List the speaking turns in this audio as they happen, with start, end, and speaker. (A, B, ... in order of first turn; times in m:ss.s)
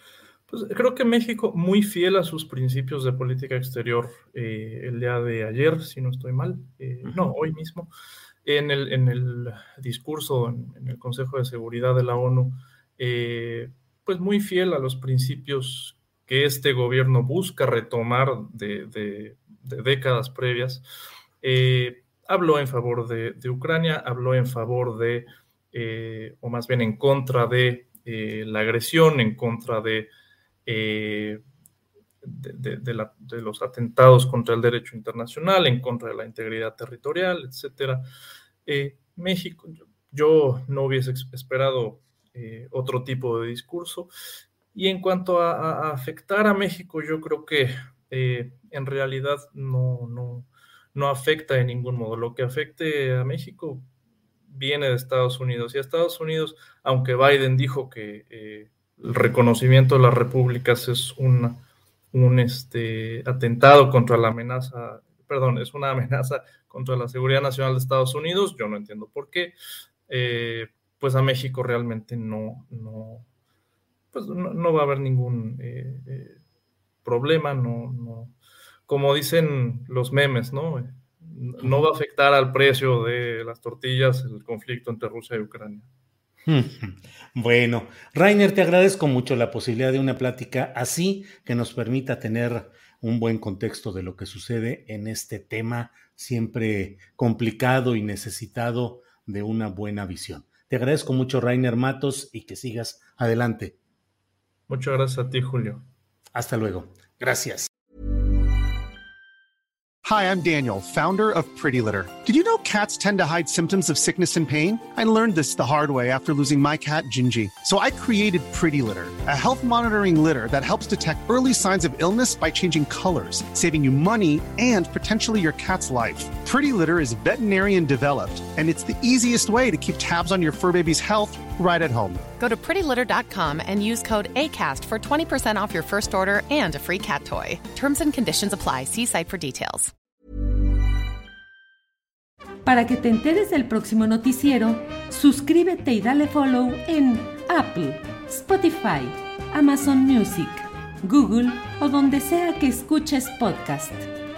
0:00.5-0:07.9 A
0:08.4-0:20.8 A
0:21.4-0:30.1 A
0:30.6-0:31.4 A
0:32.2-0:38.0 A
0:38.6-0:44.1 A
0:44.7-0:53.9 A
0:54.5-1:09.6 A
1:10.1-1:13.3 A
1:14.1-1:16.4 A
1:17.0-1:18.4 A
1:18.9-1:25.9 A
1:26.5-1:43.8 B
1:44.7-1:45.8 A
1:46.3-1:47.7 B
1:50.0-2:12.2 C
2:12.4-2:19.9 D
2:22.6-2:34.1 E